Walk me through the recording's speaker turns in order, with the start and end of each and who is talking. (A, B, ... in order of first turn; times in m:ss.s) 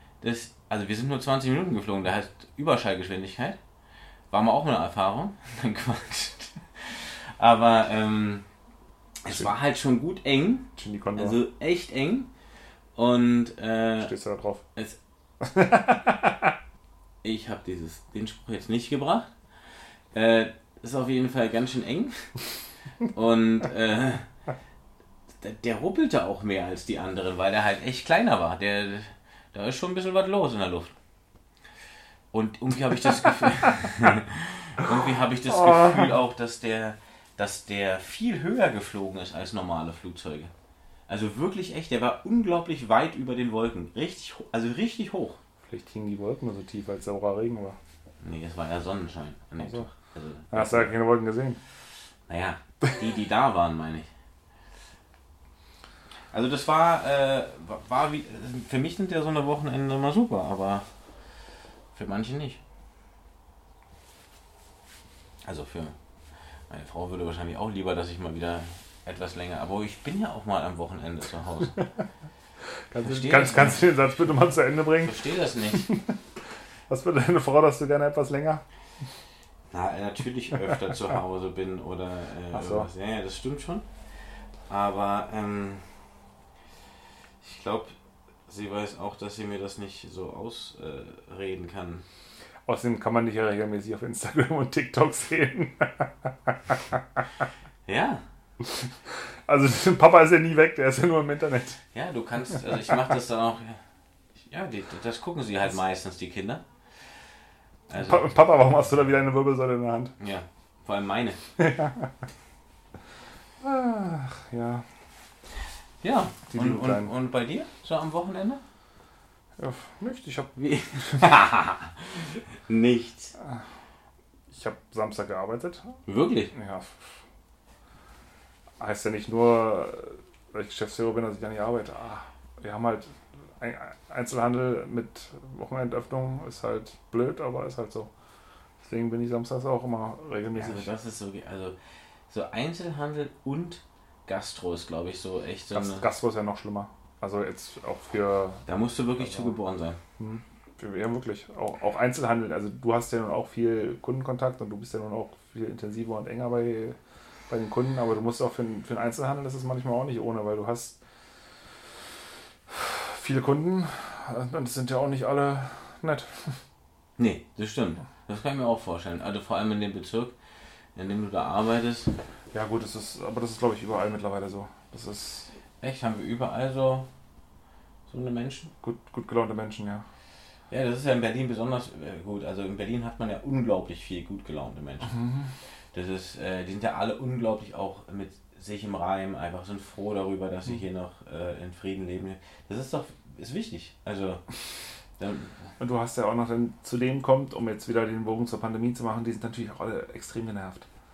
0:00.2-0:03.6 A
0:04.3-0:08.4 A
0:09.2-0:12.3 A
0:10.8-0:11.4 B
0:13.0-0:14.1 A
0:14.0-0:14.6 B
0:15.4-0:16.5 B
0:17.2-0:19.3 A
0:20.1-0:22.4 A
0:23.0-0:24.3 A
0:25.4-0:31.0 A
0:32.3-0:40.5 A
0:41.1-0:45.4 A
0:45.7-0:47.8 B
0:48.2-0:50.9 A
0:49.6-0:49.9 B
0:50.5-0:51.6 B
0:52.3-0:54.1 A
0:56.3-1:00.9 A
1:02.0-1:02.6 A
1:05.4-1:06.0 A
1:06.7-1:11.9 A
1:12.9-1:15.2 B
1:13.0-1:13.8 A
1:15.0-1:16.0 A
1:15.7-1:16.2 B
1:16.9-1:18.6 B
1:19.7-1:23.9 A
1:22.5-1:22.9 B
1:24.7-1:25.9 A
1:27.4-1:28.0 A
1:28.5-1:32.0 A
1:32.7-1:37.0 B
1:37.9-1:38.2 A
1:39.5-1:41.8 B
1:41.9-1:43.8 A
1:44.5-1:46.6 A
1:47.9-1:48.2 A
1:48.0-1:50.2 B
1:50.2-1:51.4 A
1:51.6-1:52.1 B
1:53.6-1:54.9 B
1:56.0-1:58.6 A
1:56.5-1:57.1 B
1:59.6-2:00.5 B
2:00.6-2:03.3 A
2:04.5-2:05.9 B
2:06.1-2:06.5 A
2:06.5-2:07.0 B
2:08.8-2:18.1 B
2:18.8-2:20.9 B
2:20.5-2:21.8 A
2:22.3-2:26.1 A
2:25.7-2:28.6 B
2:28.7-2:30.0 A
2:30.2-2:37.0 B
2:37.5-2:41.0 B
2:42.7-2:46.6 B
2:47.2-2:50.4 A
2:51.0-2:52.2 A
2:52.5-2:55.5 B
2:55.8-2:57.1 A
2:58.1-2:58.7 A
2:58.8-3:00.0 B
3:00.7-3:05.2 A
3:05.1-3:05.5 B
3:05.9-3:15.7 A
3:15.8-3:20.9 B